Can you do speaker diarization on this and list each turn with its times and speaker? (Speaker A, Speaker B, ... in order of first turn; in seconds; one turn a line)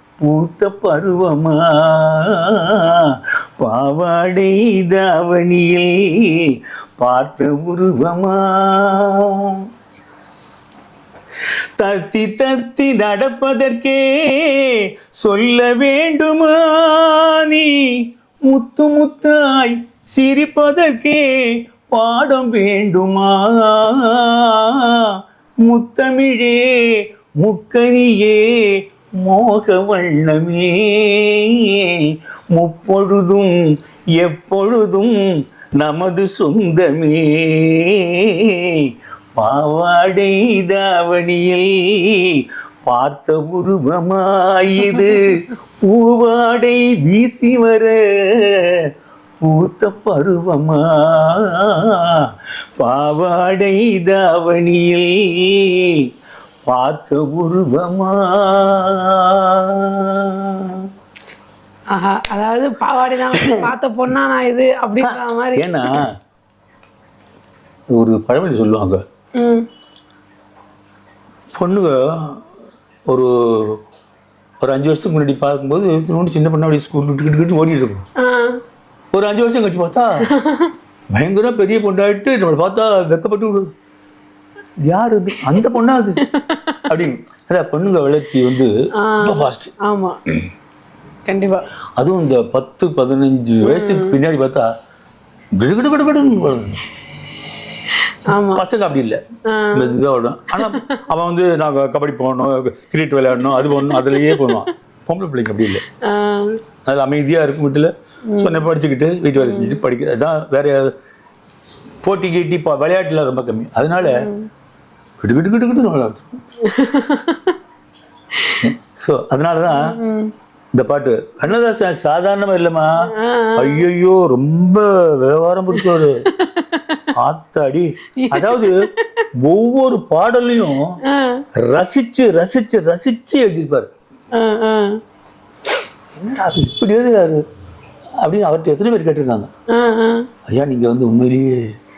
Speaker A: 0.2-9.6
Speaker A: 11.8-25.1
Speaker A: 25.6-33.5
Speaker A: 34.1-35.2
Speaker A: 35.8-48.8
Speaker B: 44.9-45.4
Speaker A: 49.4-52.2
Speaker A: 52.8-56.0
Speaker A: 56.7-60.9
Speaker B: 61.9-66.0
Speaker A: 63.3-63.6
Speaker A: 65.0-66.1
Speaker A: 67.9-69.0
Speaker B: 69.4-69.7
Speaker A: 71.5-72.4
Speaker A: 73.1-73.8
Speaker A: 74.6-78.0
Speaker B: 78.2-78.6
Speaker A: 79.1-80.3
Speaker B: 80.2-80.7
Speaker A: 81.1-83.7
Speaker A: 84.8-86.2
Speaker B: 85.5-86.8
Speaker A: 86.9-89.7
Speaker B: 89.0-90.2
Speaker B: 91.2-91.6
Speaker A: 92.0-94.7
Speaker B: 93.6-94.2
Speaker A: 95.6-96.8
Speaker B: 98.1-98.6
Speaker A: 98.3-99.2
Speaker B: 99.5-100.0
Speaker A: 99.7-105.8
Speaker B: 100.5-101.0
Speaker B: 103.4-104.7
Speaker B: 106.0-106.6
Speaker A: 106.8-110.9
Speaker B: 108.3-108.7
Speaker B: 109.4-109.8
Speaker A: 112.0-114.3
Speaker B: 114.0-114.5
Speaker A: 115.2-116.2
Speaker B: 116.6-117.6
Speaker B: 118.3-118.7
Speaker A: 118.6-120.0
Speaker B: 119.7-120.3
Speaker A: 120.7-126.3
Speaker B: 123.1-123.9
Speaker B: 125.7-127.1
Speaker A: 127.1-128.9
Speaker B: 128.2-129.3
Speaker A: 129.4-131.0
Speaker B: 131.0-131.5
Speaker A: 131.6-133.9
Speaker B: 134.3-135.0
Speaker A: 136.2-137.4
Speaker A: 138.2-139.5
Speaker B: 139.7-140.3
Speaker A: 140.5-141.7